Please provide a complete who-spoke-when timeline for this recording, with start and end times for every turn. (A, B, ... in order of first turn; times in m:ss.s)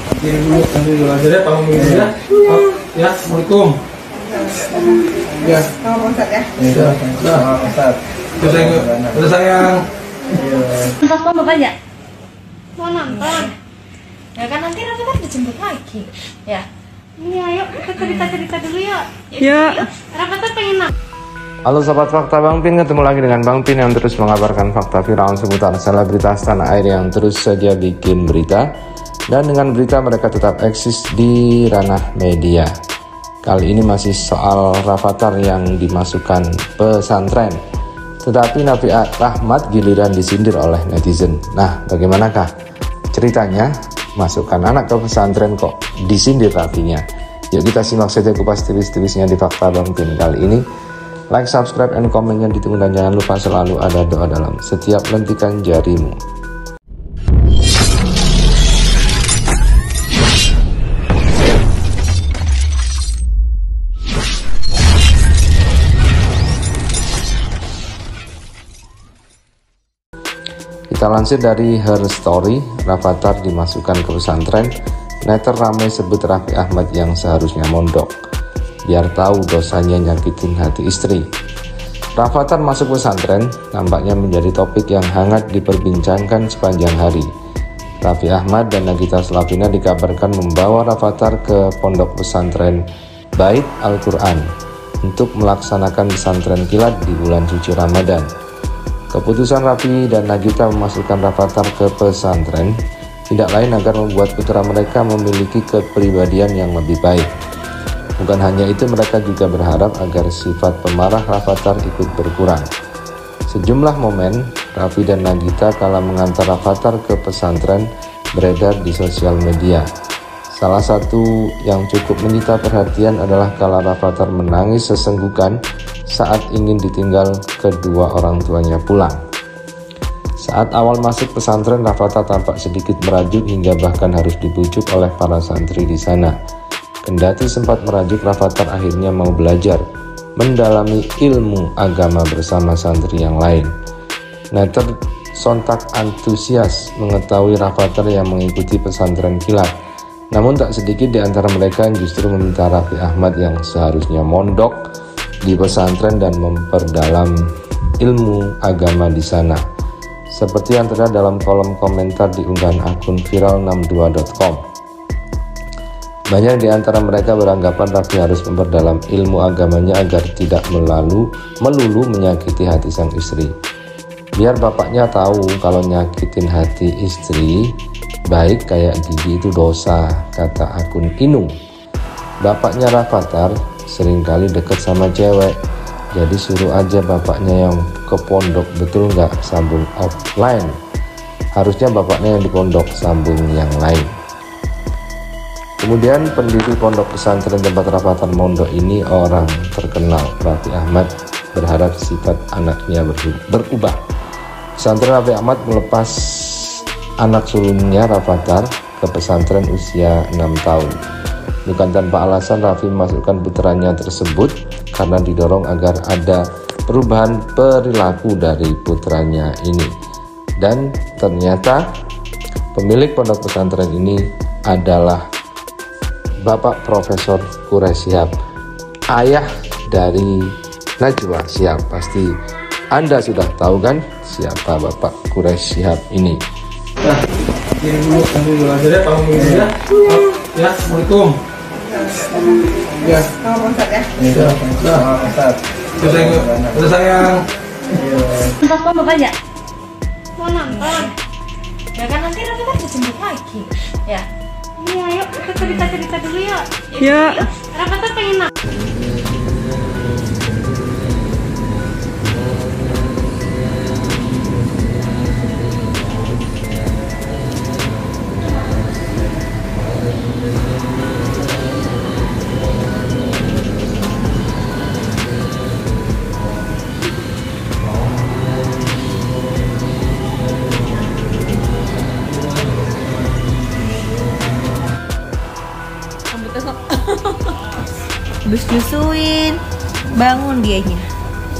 0:00.1-0:03.8 A
0:05.4-0:05.9 A
0:06.6-0:07.6 A
0:08.4-0:09.9 A
0:10.9-0:11.8 B
0:12.8-0:13.5 C
0:13.3-0:13.5 B
0:14.3-0:16.7 B
0:17.2-0:20.9 C
0:21.6-0:28.7 D
0:29.3-0:32.7 D
0:33.4-0:37.6 D
0:38.2-0:42.5 D
0:43.1-0:50.6 D
0:51.3-0:56.2 D
1:10.9-1:14.7 D
1:15.2-1:18.1 D
1:18.8-1:21.3 D
1:22.2-1:27.3 D
1:28.0-1:32.8 D
1:33.4-1:34.5 D
1:35.0-1:38.3 D
1:39.1-1:42.7 D
1:43.3-1:47.3 D
1:48.2-1:52.7 D
1:53.5-1:59.9 D
2:00.5-2:05.6 D
2:06.1-2:09.2 D
2:10.4-2:16.3 D
2:17.0-2:19.8 D
2:20.4-2:23.7 D
2:24.5-2:29.7 D
2:30.3-2:34.8 D
2:35.4-2:37.4 D
2:38.0-2:39.6 D
2:40.3-2:44.6 D
2:46.3-2:53.5 D
2:54.4-2:57.7 D
2:58.3-3:01.5 D
3:02.4-3:05.6 D
3:06.1-3:10.7 D
3:11.6-3:14.1 D
3:15.8-3:24.0 D
3:24.8-3:31.0 D
3:31.6-3:39.9 D
3:40.6-3:41.8 D
3:42.7-3:45.2 D
3:46.4-3:48.4 D
3:49.1-3:52.3 D
3:52.9-3:56.4 D
3:57.7-4:01.4 A
4:03.0-4:03.4 A
4:04.2-4:05.2 A
4:06.0-4:07.5 A
4:08.6-4:09.4 B
4:10.4-4:11.1 C
4:10.9-4:11.1 B
4:11.9-4:14.3 B
4:14.8-4:18.5 C
4:15.6-4:15.9 B
4:16.9-4:17.5 B
4:46.3-4:47.5 E
4:48.4-4:49.6 E
4:50.1-4:51.1 E